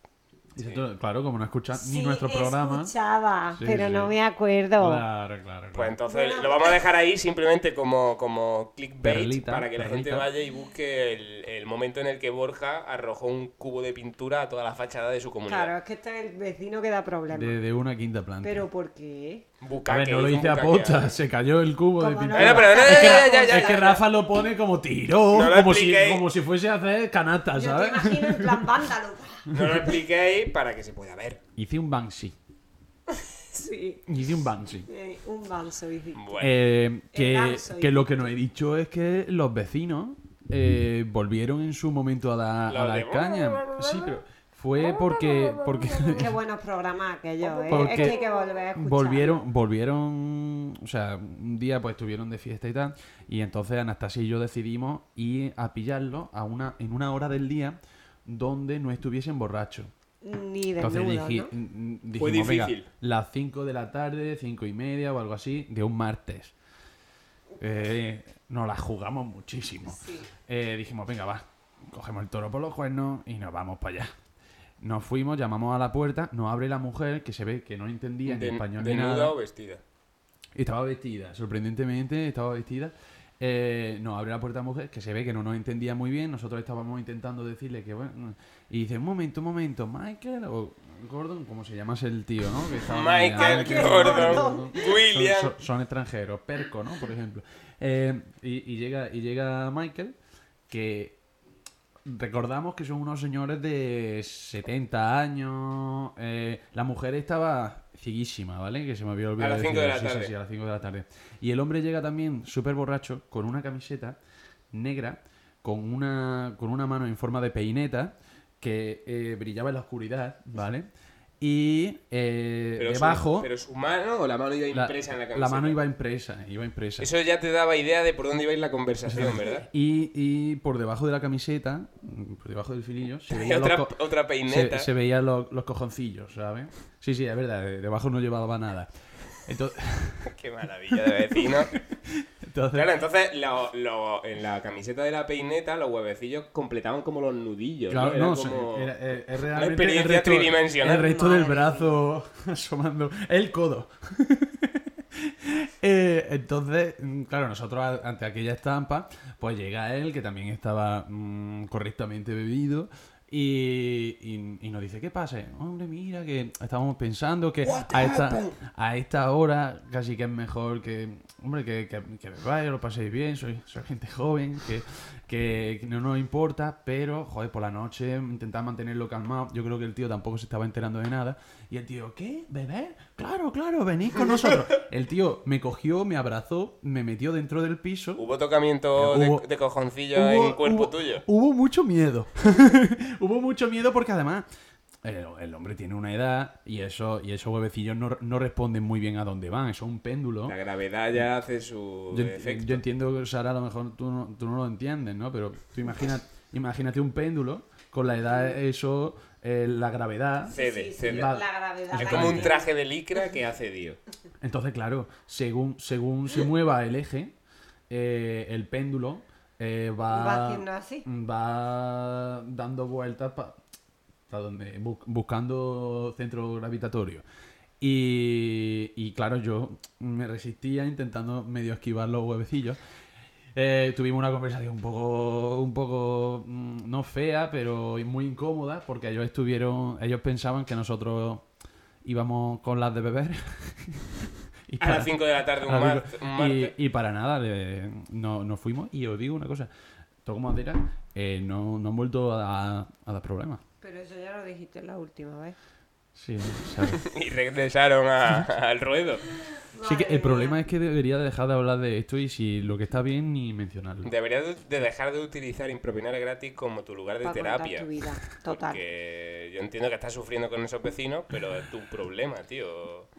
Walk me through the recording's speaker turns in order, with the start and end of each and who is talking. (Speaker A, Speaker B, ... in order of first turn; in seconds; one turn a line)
Speaker A: 0.5-2.9
Speaker B: 1.7-5.0
Speaker A: 3.5-4.2
Speaker A: 4.8-6.0
Speaker C: 5.7-15.7
Speaker B: 6.0-6.8
Speaker A: 9.0-10.3
Speaker B: 15.4-17.6
Speaker A: 17.3-18.6
Speaker B: 18.4-19.4
Speaker C: 19.6-21.1
Speaker A: 19.9-28.8
Speaker B: 22.0-24.0
Speaker C: 22.3-24.0
Speaker C: 25.3-26.2
Speaker B: 27.5-29.5
Speaker A: 29.5-29.9
Speaker C: 29.5-31.4
Speaker A: 31.6-32.3
Speaker B: 33.1-34.1
Speaker A: 34.1-34.9
Speaker B: 34.9-36.4
Speaker C: 36.1-36.5
Speaker A: 36.4-46.4
Speaker B: 37.1-38.1
Speaker C: 42.7-43.6
Speaker B: 46.0-49.4
Speaker A: 47.7-48.2
Speaker C: 47.7-48.1
Speaker A: 48.7-59.9
Speaker B: 60.2-61.5
Speaker A: 60.8-66.5
Speaker C: 62.1-62.9
Speaker A: 67.6-74.1
Speaker B: 69.9-70.3
Speaker A: 74.8-79.3
Speaker C: 78.2-79.8
Speaker A: 80.5-100.1
Speaker C: 92.8-95.5
Speaker B: 93.3-95.0
Speaker A: 100.7-101.2
Speaker A: 102.0-114.2
Speaker C: 109.4-110.3
Speaker A: 114.7-120.9
Speaker A: 121.4-123.5
Speaker C: 122.8-125.8
Speaker A: 124.7-127.1
Speaker C: 127.0-129.7
Speaker A: 129.1-138.9
Speaker C: 133.3-134.9
Speaker A: 139.4-140.3
Speaker C: 140.2-141.7
Speaker A: 140.9-142.9
Speaker C: 142.7-148.9
Speaker A: 147.9-188.2
Speaker C: 149.5-151.1
Speaker B: 150.8-152.0
Speaker C: 167.8-168.4
Speaker C: 188.2-191.2
Speaker A: 188.9-189.4
Speaker A: 190.1-194.4
Speaker A: 195.0-200.6
Speaker C: 200.5-202.8
Speaker A: 202.1-212.5
Speaker B: 210.5-212.7
Speaker C: 210.5-211.4
Speaker C: 211.9-214.0
Speaker A: 214.4-217.3
Speaker A: 217.9-223.6
Speaker B: 220.1-221.1
Speaker A: 224.3-227.2
Speaker A: 227.8-232.8
Speaker A: 233.5-241.5
Speaker A: 242.0-249.7
Speaker C: 244.8-246.7
Speaker A: 250.2-253.6
Speaker B: 253.8-255.6
Speaker A: 256.1-257.0
Speaker C: 256.9-259.2
Speaker B: 259.6-260.6
Speaker A: 259.8-264.1
Speaker C: 264.0-267.9
Speaker B: 267.2-268.8
Speaker C: 268.5-273.1